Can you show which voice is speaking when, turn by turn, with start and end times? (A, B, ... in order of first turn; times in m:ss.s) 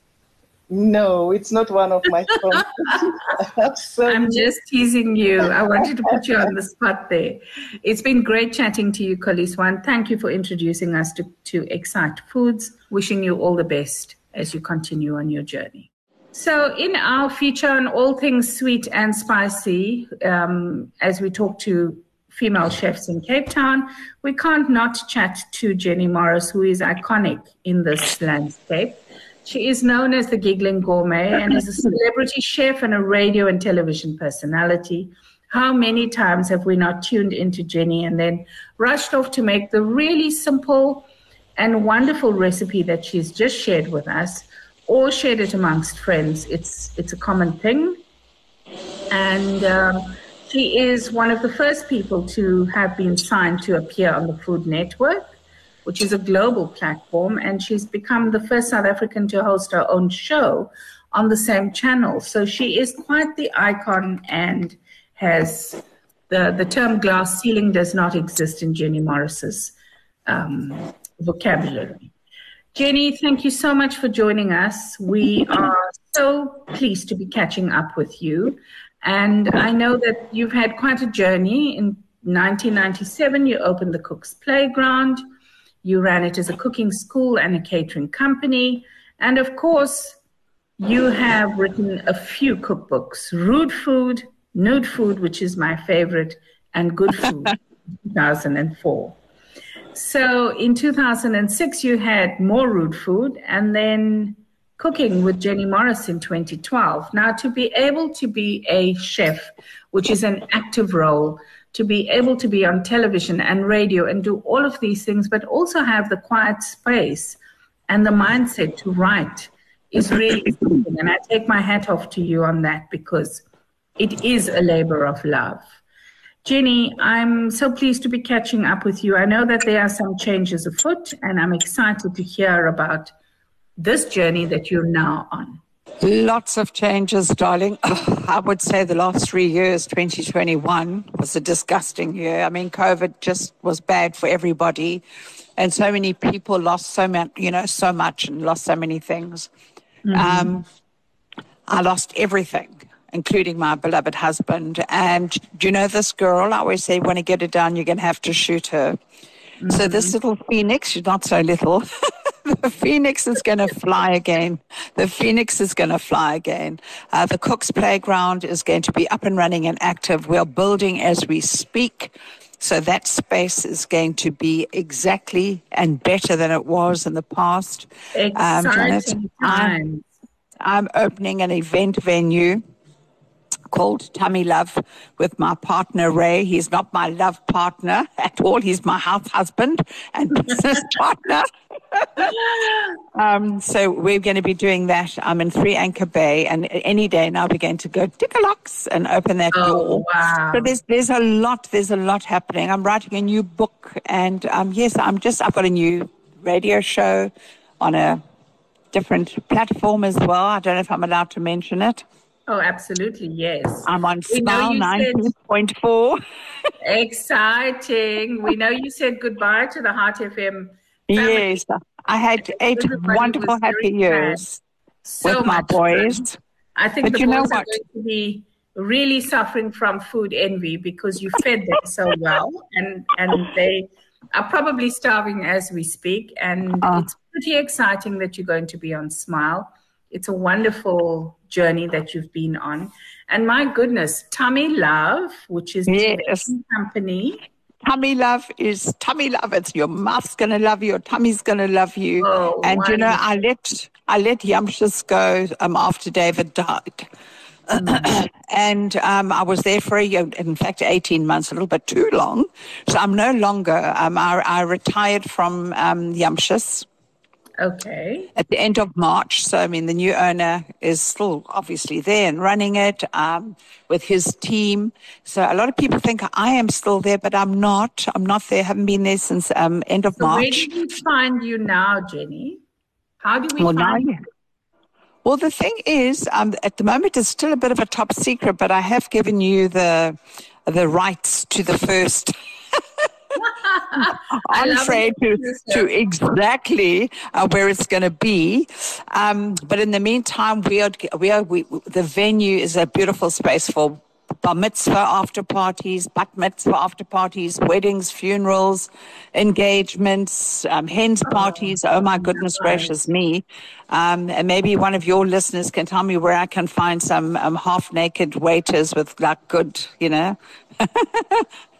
0:00.7-0:04.5 A
0:04.1-0:48.0 B
0:49.1-1:09.7 B
1:10.3-1:12.1 B
1:12.7-1:25.2 B
1:25.8-1:30.2 B
1:30.8-1:39.2 B
1:39.9-2:03.4 B
2:04.0-2:05.7 B
2:06.4-2:13.1 B
2:13.8-2:15.6 B
2:16.0-2:25.0 C
2:25.6-2:29.5 C
2:30.0-2:30.5 B
2:30.1-2:30.6 C
2:31.7-2:39.0 C
2:39.6-2:40.2 B
2:39.7-2:41.8 C
2:42.4-2:59.8 C
2:58.1-3:00.1 B
3:00.6-3:02.6 C
3:03.7-3:12.4 C
3:10.5-3:11.0 B
3:12.2-3:12.9 B
3:13.1-3:28.2 C
3:19.5-3:20.7 B
3:28.9-3:32.0 C
3:32.5-3:35.3 B
3:33.8-3:36.2 C
3:36.8-3:41.6 B
3:41.1-3:44.6 C
3:42.4-3:44.4 B
3:45.0-3:46.2 B
3:45.2-3:46.4 C
3:46.8-4:07.4 B
3:47.0-3:47.8 C
3:56.8-3:57.1 C
4:05.9-4:06.5 C
4:07.8-4:17.1 C
4:12.2-4:13.2 B
4:17.7-4:26.8 C
4:17.8-4:18.1 B
4:27.6-4:28.3 B
4:28.4-4:40.8 C
4:40.2-4:42.6 B
4:43.2-4:44.1 B
4:43.6-4:44.2 C
4:45.2-4:52.8 C
4:53.4-4:55.9 B
4:54.0-5:21.4 C
5:11.2-5:12.9 B